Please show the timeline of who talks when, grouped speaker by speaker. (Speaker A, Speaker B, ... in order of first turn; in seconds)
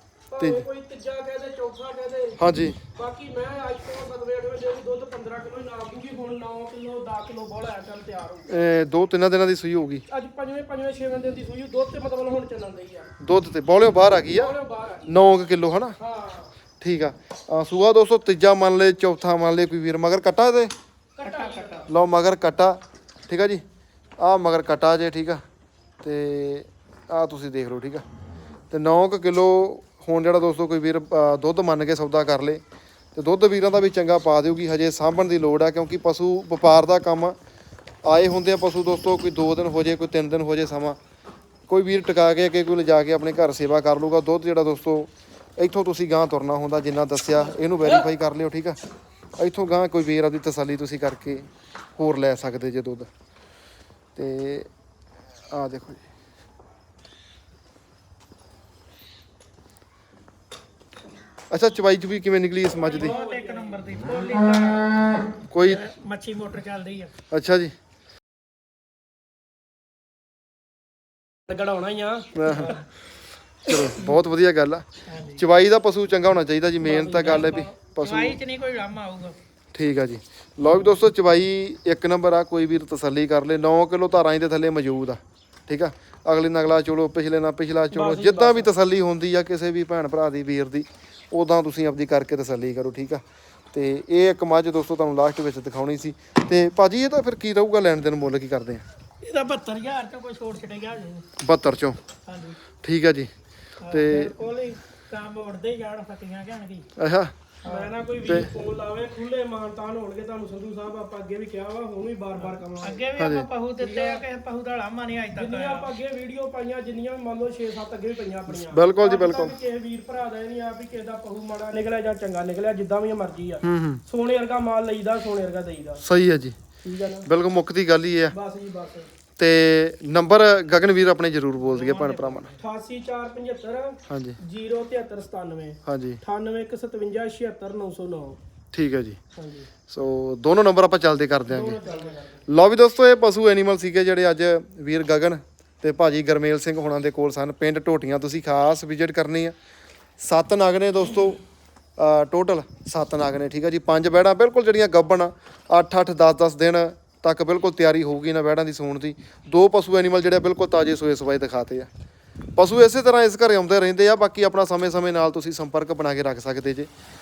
Speaker A: 0.3-2.4, 2.9-8.5, 10.1-13.1, 14.3-15.1, 16.0-16.5, 21.2-21.9, 62.8-63.8, 71.5-72.8, 76.8-77.7, 87.9-88.7, 107.6-113.2, 113.8-114.2, 115.3-126.0, 126.8-127.3, 128.3-129.1, 132.6-138.4, 139.3-139.7, 141.5-142.4
Speaker B: 0.4-0.6, 2.4-2.8, 8.5-10.0, 13.2-14.5, 15.1-15.9, 16.8-20.7, 21.9-23.6, 24.2-25.4, 26.0-28.0, 28.7-32.6, 33.1-37.3, 38.0-41.0, 41.7-48.8, 49.4-53.1, 54.1-54.7, 55.5-56.0, 61.5-63.1, 65.5-65.8, 67.3-67.7, 72.3-72.8, 73.6-78.4, 79.7-98.8, 101.4-102.0, 102.8-103.3, 103.9-104.3, 107.0-107.3, 108.2-108.5, 113.2-113.5, 118.5-119.5, 123.6-124.0, 126.0-126.6, 127.2-128.3, 129.4-132.5, 134.1-134.4, 135.8-136.2, 138.7-139.2, 139.9-141.8, 142.5-149.5, 150.2-151.4, 152.0-161.9, 162.6-166.9
Speaker C: 21.2-21.9, 62.8-64.9, 65.6-67.1, 72.5-72.8, 75.1-75.4, 77.2-79.3, 99.2-101.2, 102.2-102.6, 103.8-106.9, 107.6-108.0, 112.3-115.9, 131.6-132.6